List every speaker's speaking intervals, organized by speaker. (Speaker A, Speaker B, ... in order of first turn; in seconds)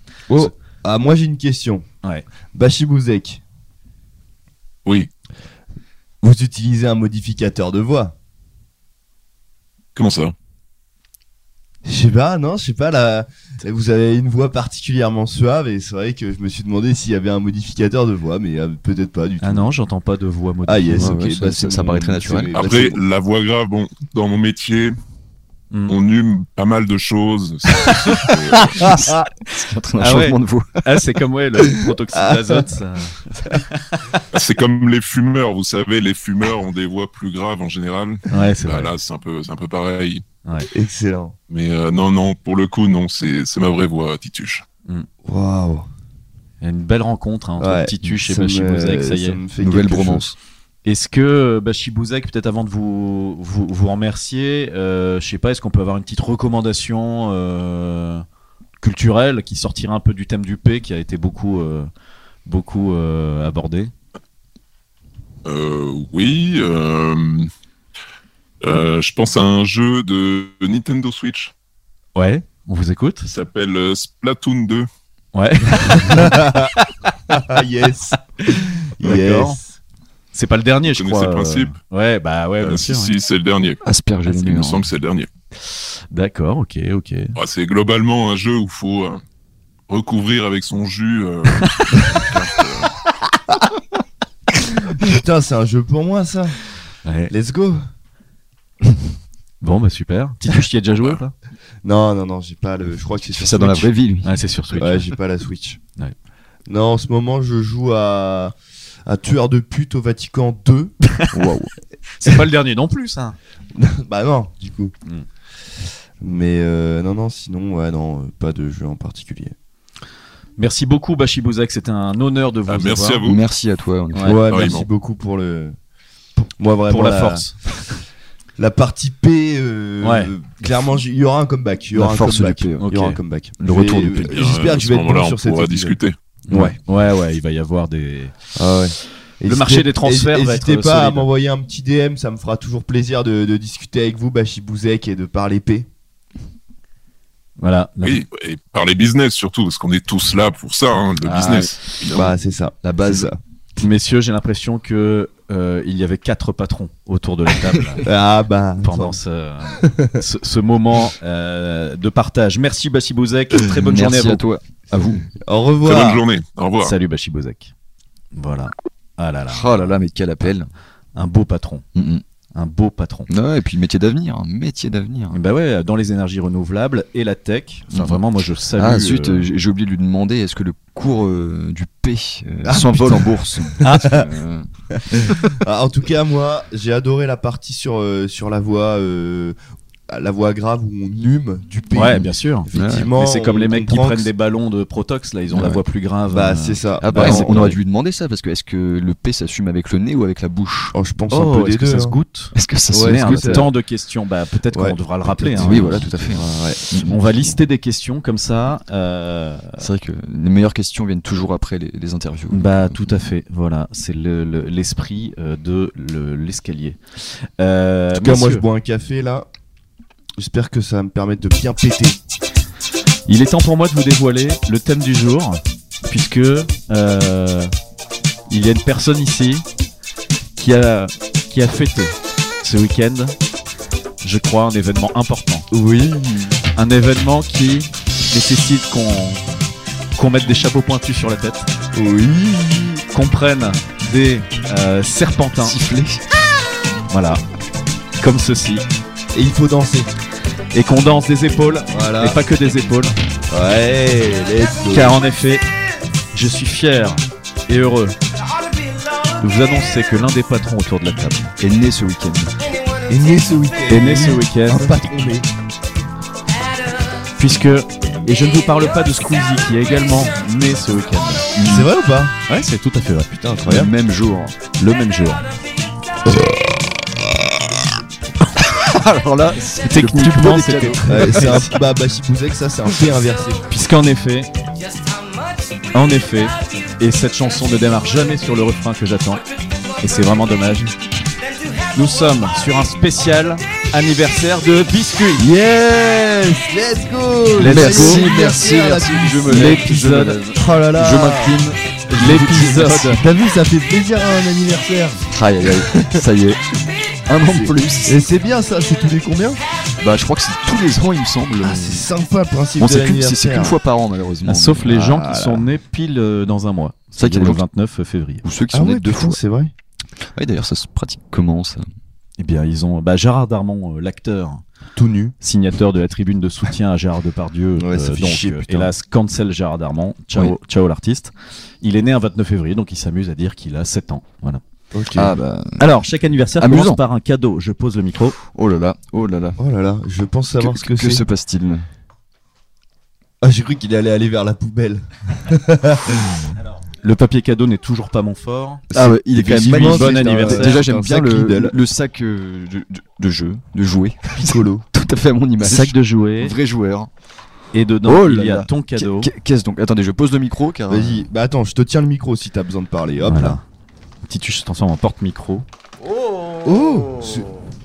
Speaker A: 0.3-1.8, 2.5-3.4, 6.2-8.1, 11.8-19.7, 20.6-23.0, 28.7-29.2, 32.1-32.7, 40.7-41.3, 45.2-45.9, 47.6-50.3, 76.0-76.7, 77.3-79.7, 94.8-96.5, 97.3-97.8, 101.8-103.9, 104.8-105.8, 106.7-108.5, 109.0-110.9, 113.7-114.9, 116.2-119.5, 124.2-125.7, 126.5-127.5, 128.6-136.0, 136.5-136.8, 138.6-145.9, 152.1-153.4, 158.0-159.2, 159.7-160.2, 165.4-166.2, 182.6-184.2, 185.1-189.6, 190.1-194.3, 196.3-197.7, 200.9-202.2, 202.9-203.7, 204.7-206.8, 218.1-219.5, 220.4-222.2, 235.7-236.6, 241.9-243.0, 249.3-250.1, 251.9-252.4, 253.5-255.2, 263.1-265.5, 271.6-272.4, 273.3-273.9, 276.2-277.8, 281.1-283.7, 295.4-299.8, 300.5-301.6, 303.0-306.2, 307.4-309.6, 311.6-313.8, 314.9-315.6, 318.7-319.7, 324.9-325.3, 327.8-328.9, 334.9-335.4, 339.6-341.2, 343.4-346.5, 348.9-351.7, 354.3-354.8, 360.9-363.6, 366.6-367.5
Speaker B: 9.9-10.3, 22.5-24.9, 25.9-28.9, 34.3-40.2, 41.5-44.6, 65.4-67.5, 68.6-71.5, 73.2-74.9, 80.9-81.7, 82.6-85.3, 87.3-89.2, 89.9-92.9, 122.7-123.4, 124.5-124.9, 134.3-136.1, 148.0-152.2, 165.8-166.9
Speaker C: 19.4-21.2, 30.0-34.2, 38.3-38.9, 46.6-49.4, 50.8-58.2, 58.8-61.9, 62.5-63.9, 72.2-73.3, 75.3-76.9, 78.5-79.6, 80.3-83.1, 86.1-87.3, 97.0-97.3, 99.6-101.3, 104.2-105.1, 112.1-113.3, 120.6-123.2, 126.4-127.5, 130.0-130.3, 132.8-133.2, 136.5-138.3, 139.4-141.3, 147.6-148.2, 151.2-151.7, 153.8-158.1, 158.8-164.4, 166.8-167.7, 168.3-169.9, 171.2-171.8, 172.5-173.3, 175.3-179.5, 183.8-184.1, 191.9-197.8, 201.3-206.1, 207.1-209.8, 212.5-217.0, 217.6-218.6, 223.3-227.7, 228.5-229.6, 230.6-233.3, 234.2-235.7, 236.8-239.4, 240.2-241.7, 243.1-245.8, 247.1-247.4, 248.2-248.8, 250.7-253.2, 254.9-255.6, 256.3-258.1, 259.4-261.5, 263.9-264.9, 267.4-271.5, 272.5-273.3, 274.7-275.4, 279.8-281.6, 283.7-284.5, 285.9-289.4, 290.0-290.9, 291.9-295.5, 297.6-298.3, 299.4-300.4, 302.1-303.2, 314.4-318.4, 322.4-324.6, 325.4-334.6, 335.8-338.4, 347.0-350.8, 355.6-356.5, 357.7-359.3, 363.3-363.6, 364.3-365.6
Speaker D: 20.9-22.8, 28.8-30.8, 49.6-50.4, 83.8-84.8, 103.3-104.4, 111.3-111.7, 123.2-124.5, 131.9-132.9, 133.6-134.3, 151.3-151.6, 152.8-153.3, 163.7-165.3, 169.5-170.7, 171.9-172.2, 173.3-175.4, 177.9-178.2, 178.8-184.7, 185.2-185.5, 192.7-193.1, 195.5-195.8, 197.0-200.9, 202.5-203.7, 205.6-207.5, 209.8-213.0, 245.6-246.2, 261.6-262.5, 271.5-271.9, 273.6-274.6, 278.6-281.8, 297.6-303.2, 305.3-308.2, 310.0-312.1, 312.8-315.1, 317.1-317.6, 318.4-319.4, 320.3-321.8, 335.1-335.9, 336.6-337.0, 338.5-339.6, 340.6-341.9, 348.9-357.1, 358.0-361.3